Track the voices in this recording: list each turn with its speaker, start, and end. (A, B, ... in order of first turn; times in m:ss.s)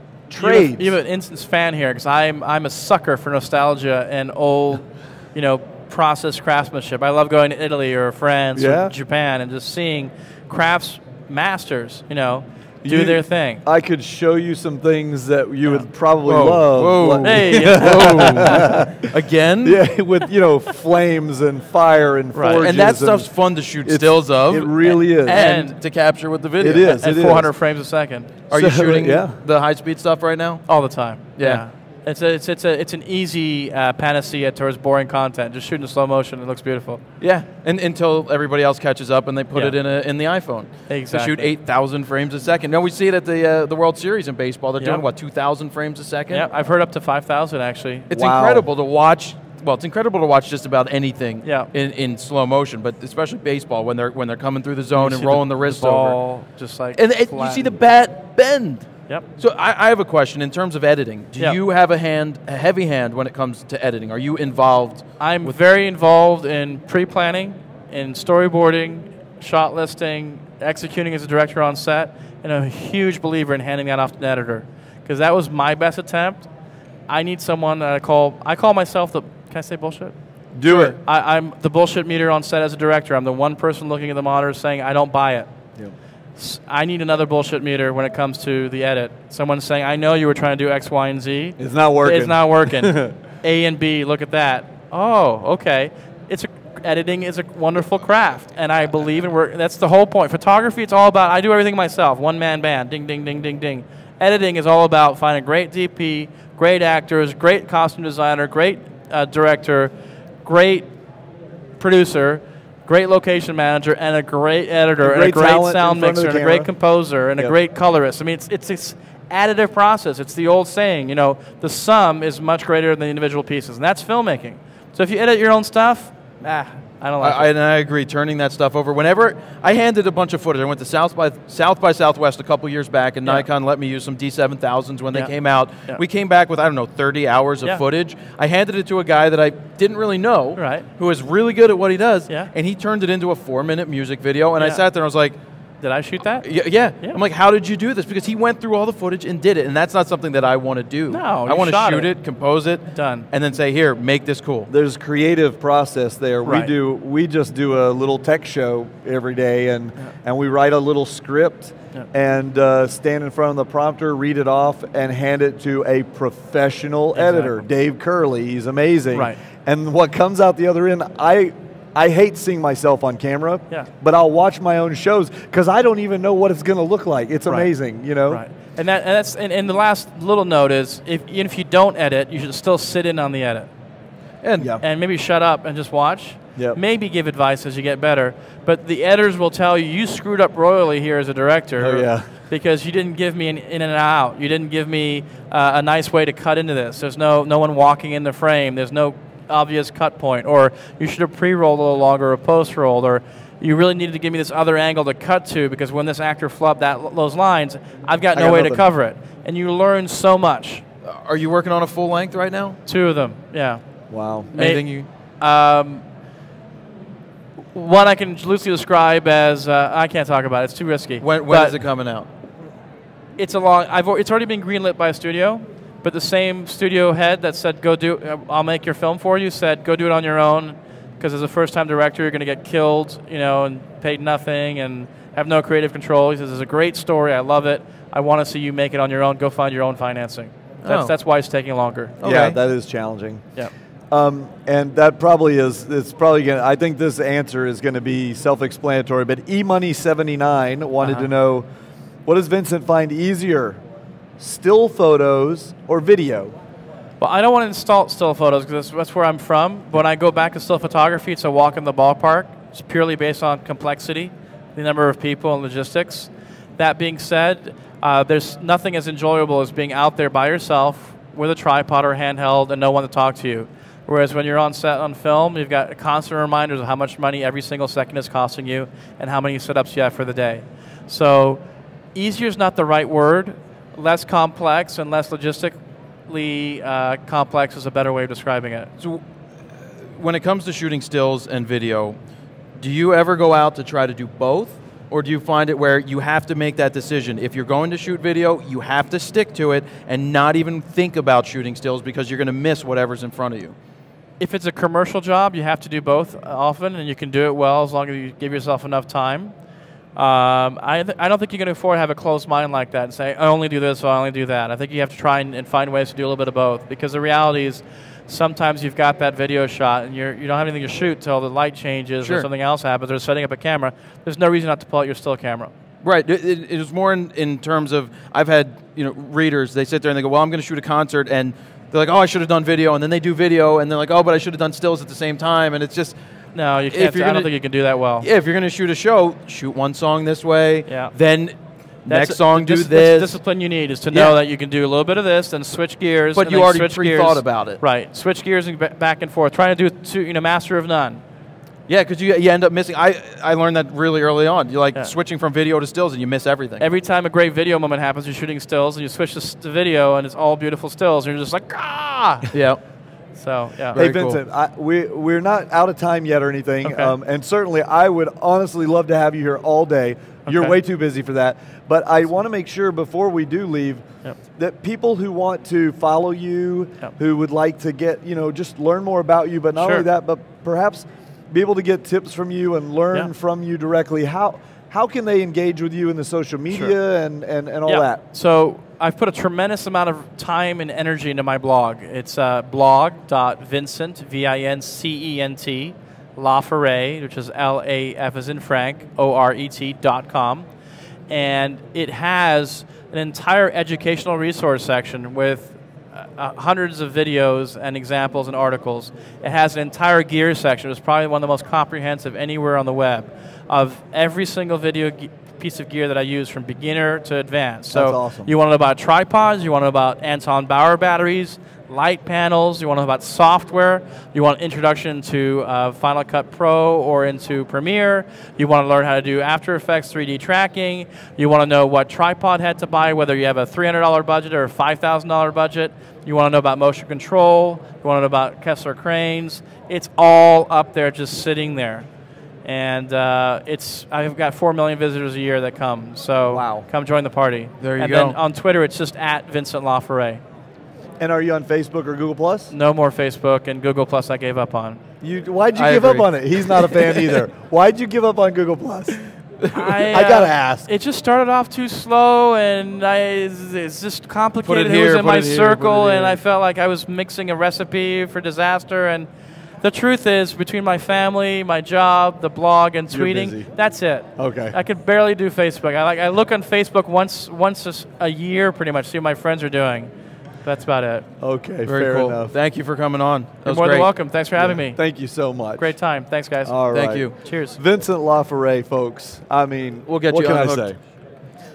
0:00.3-0:00.9 A
0:00.4-0:13.6 B
0:08.6-0:08.9 A
0:12.8-0:23.3 A
0:16.2-0:19.8 C
0:17.2-0:18.8 B
0:22.3-0:22.7 B
0:22.6-0:27.0 C
0:23.8-0:25.5 A
0:25.2-0:25.8 B
0:26.6-0:27.5 A
0:26.7-0:28.3 B
0:28.5-0:30.7 C
0:28.5-0:29.4 A
0:30.7-0:37.0 B
0:31.4-0:31.6 C
0:37.2-0:46.5 C
0:40.9-0:41.5 B
0:46.3-0:48.1 B
0:48.1-0:56.2 C
0:48.1-0:48.7 A
0:51.4-0:51.7 B
0:55.0-0:57.7 B
0:57.0-1:05.0 C
1:05.2-1:16.5 B
1:17.1-1:20.1 B
1:20.5-1:21.0 A
1:20.6-1:25.5 B
1:26.4-1:49.9 B
1:31.6-1:33.1 A
1:50.4-1:50.9 B
1:51.8-2:07.5 B
1:55.0-1:56.7 A
2:07.2-2:25.4 C
2:20.6-2:20.8 B
2:25.8-2:26.4 B
2:26.4-2:34.7 C
2:31.1-2:32.1 B
2:32.9-2:33.3 B
2:34.7-2:58.4 A
2:36.4-2:36.7 B
2:47.1-2:47.6 B
2:49.1-2:49.4 B
2:58.3-3:03.7 B
3:04.4-3:04.7 C
3:04.8-3:30.8 B
3:11.8-3:12.3 A
3:28.3-3:28.8 A
3:31.0-3:32.8 C
3:32.8-3:33.8 B
3:34.1-3:34.5 A
3:34.5-3:35.1 C
3:34.5-3:34.9 B
3:35.4-3:36.0 B
3:37.7-3:41.8 B
3:41.2-3:42.3 C
3:43.4-4:02.2 B
4:00.8-4:01.1 C
4:02.2-4:02.6 C
4:02.2-4:03.5 A
4:04.1-4:11.6 A
4:12.2-4:13.8 A
4:14.4-4:16.5 A
4:17.2-4:41.6 B
4:42.1-4:48.9 B
4:50.2-4:52.2 C
4:52.8-5:03.7 C
5:04.4-5:09.5 B
5:10.2-5:25.7 B
5:22.2-5:22.5 C
5:26.0-5:36.2 C
5:36.5-5:38.3 B
5:36.9-5:37.5 C
5:38.2-5:41.5 C
5:40.9-5:41.1 B
5:42.0-5:43.4 C
5:42.1-5:51.2 B
5:46.3-5:47.8 C
5:51.9-5:56.8 C
5:56.8-6:02.5 B
6:02.5-6:02.8 C
6:03.4-6:04.0 B
6:03.9-6:04.4 C
6:04.0-6:14.0 A
6:06.8-6:07.1 B
6:10.4-6:10.7 B
6:14.6-6:28.2 A
6:19.8-6:20.0 B
6:27.9-6:40.7 B
6:41.3-7:22.1 B
6:57.9-6:58.5 A
7:22.6-7:30.4 B
7:26.5-7:26.8 A
7:27.8-7:28.4 C
7:31.2-7:32.7 A
7:32.7-7:35.0 B
7:35.2-7:39.2 A
7:35.7-7:37.4 C
7:39.6-7:40.1 C
7:39.7-7:49.3 B
7:40.1-7:40.9 A
7:44.6-7:46.4 C
7:49.8-8:00.1 B
7:53.1-7:53.7 A
7:54.4-7:54.8 A
8:00.6-8:01.2 B
8:01.4-8:02.5 A
8:01.8-8:04.1 C
8:03.6-8:05.0 B
8:04.6-8:05.9 A
8:05.8-8:06.7 B
8:06.6-8:11.0 A
8:06.9-8:07.3 C
8:07.3-8:07.8 B
8:10.1-8:10.9 C